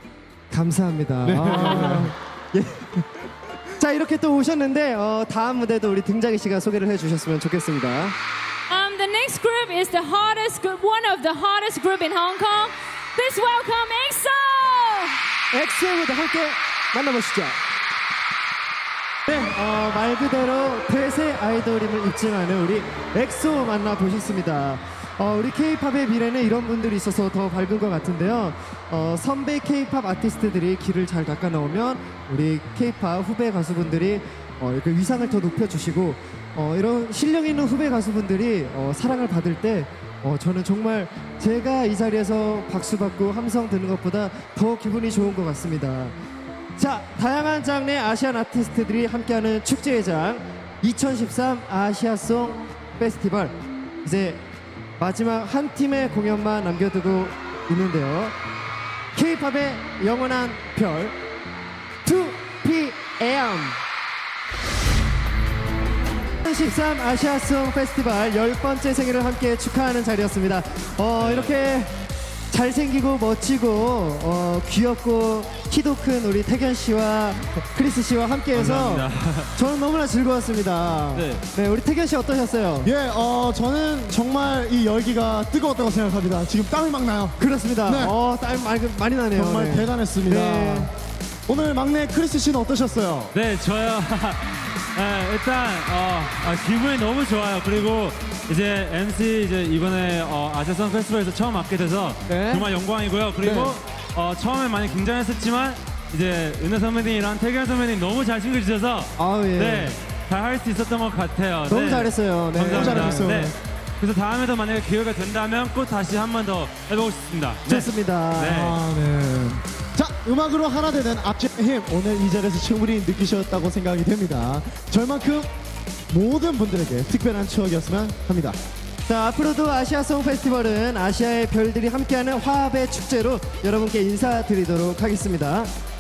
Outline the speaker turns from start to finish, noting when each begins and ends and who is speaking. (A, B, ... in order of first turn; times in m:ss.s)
0:00.5-0:03.0 A
0:01.2-0:02.1 B
0:01.7-0:02.0 C
0:03.7-0:08.2 A
0:08.7-0:15.2 C
0:15.5-0:17.6 A
0:19.3-0:46.1 A
0:46.8-0:54.4 A
0:55.0-0:58.3 A
0:59.1-1:01.2 A
1:02.0-1:03.8 A
1:06.4-1:11.9 A
1:11.2-1:11.5 D
1:12.5-1:22.9 A
1:18.5-1:19.5 D
1:21.1-1:21.4 D
1:22.8-1:28.1 B
1:27.4-1:30.9 A
1:29.3-1:30.9 B
1:31.5-1:33.3 B
1:33.3-1:58.8 D
1:42.3-1:42.7 A
1:43.4-1:43.8 A
1:49.2-1:49.9 A
1:51.7-1:53.3 A
1:52.6-1:53.5 B
1:57.7-1:58.6 A
1:58.4-2:05.5 B
2:06.1-2:08.6 B
2:09.0-2:15.7 A